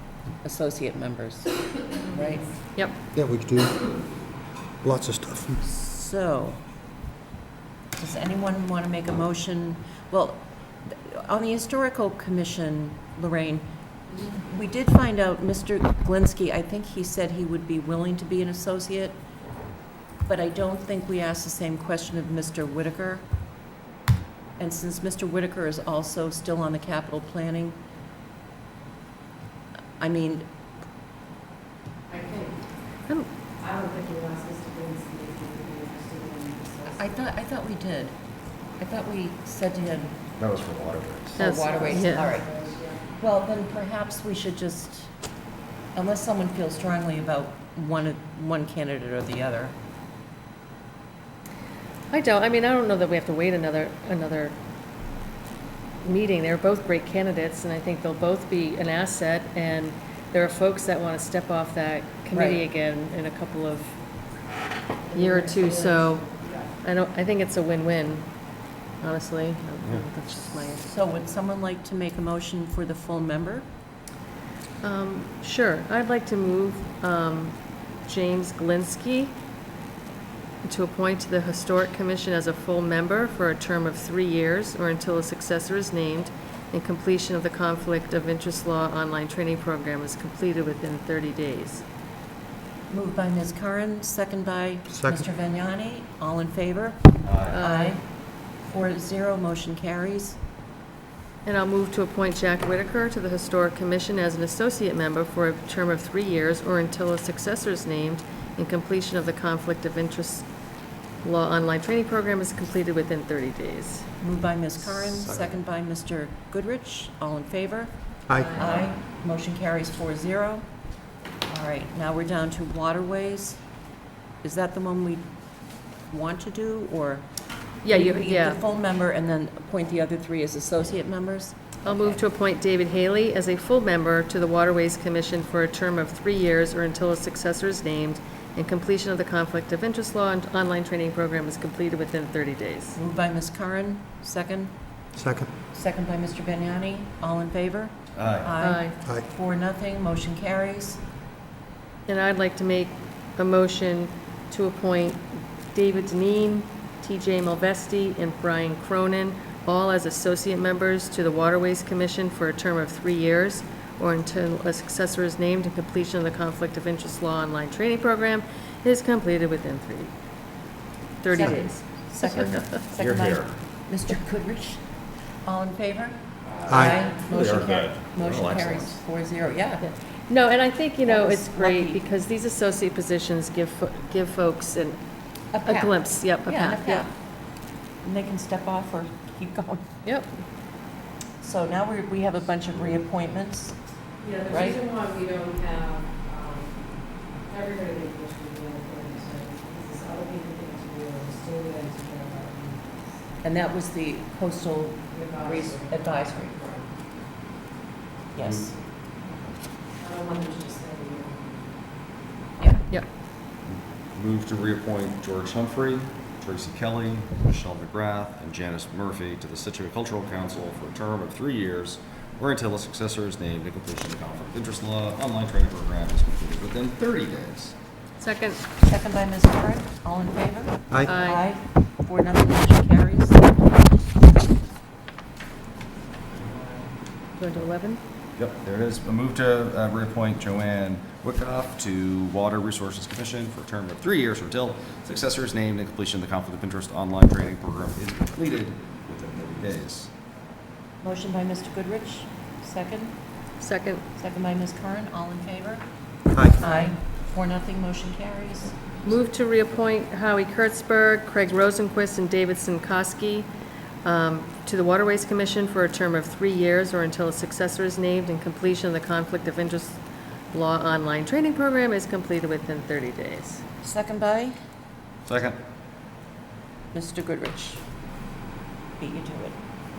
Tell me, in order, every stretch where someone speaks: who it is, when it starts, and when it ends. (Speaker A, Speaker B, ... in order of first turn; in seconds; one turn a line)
Speaker A: 0.4-2.4
Speaker B: 3.1-3.9
Speaker B: 4.8-5.6
Speaker A: 5.6-6.6
Speaker A: 8.0-13.6
Speaker A: 14.2-19.2
Speaker A: 20.2-23.2
Speaker A: 24.6-27.8
Speaker A: 30.0-30.5
Speaker C: 32.1-32.5
Speaker C: 33.6-36.8
Speaker A: 36.9-38.1
Speaker A: 38.8-40.2
Speaker D: 40.4-41.5
Speaker A: 41.4-45.1
Speaker E: 41.4-42.3
Speaker A: 45.9-49.8
Speaker E: 52.1-54.5
Speaker E: 56.0-63.9
Speaker A: 62.3-62.6
Speaker E: 65.1-68.2
Speaker E: 69.0-70.9
Speaker A: 70.8-73.7
Speaker E: 74.8-79.3
Speaker E: 80.6-91.8
Speaker A: 92.9-98.0
Speaker B: 94.9-95.2
Speaker D: 97.2-97.6
Speaker E: 97.5-98.0
Speaker A: 98.6-100.4
Speaker E: 101.4-110.5
Speaker E: 111.2-114.1
Speaker A: 114.2-120.7
Speaker B: 118.3-118.6
Speaker A: 121.5-123.6
Speaker A: 124.4-125.2
Speaker A: 126.1-127.2
Speaker E: 127.8-128.6
Speaker A: 127.9-132.2
Speaker E: 131.8-143.0
Speaker A: 142.9-144.7
Speaker B: 145.2-145.5
Speaker A: 145.7-151.0
Speaker D: 148.1-148.5
Speaker E: 148.6-148.9
Speaker E: 152.1-170.1
Speaker E: 171.2-171.8
Speaker A: 171.3-174.8
Speaker D: 172.9-173.5
Speaker A: 175.4-179.9
Speaker B: 176.7-177.0
Speaker D: 177.3-179.0
Speaker E: 179.8-185.0
Speaker A: 181.0-182.0
Speaker A: 185.5-187.1
Speaker E: 185.6-187.1
Speaker A: 188.0-190.0
Speaker E: 190.0-190.3
Speaker A: 191.4-193.8
Speaker A: 194.4-194.8
Speaker C: 194.9-196.6
Speaker C: 197.5-202.7
Speaker A: 203.4-206.7
Speaker A: 208.3-208.7
Speaker D: 208.4-208.7
Speaker C: 210.0-211.3
Speaker D: 213.7-227.7
Speaker E: 228.2-228.6
Speaker A: 228.8-234.2
Speaker E: 231.0-231.4
Speaker E: 237.4-238.0
Speaker D: 238.4-250.1
Speaker A: 251.0-253.1
Speaker E: 253.6-254.0
Speaker A: 254.2-255.8
Speaker A: 256.5-259.0
Speaker E: 259.1-263.5
Speaker E: 264.0-270.0
Speaker E: 270.5-273.6
Speaker A: 273.8-274.6
Speaker D: 275.2-275.6
Speaker A: 276.9-277.8
Speaker A: 279.0-279.6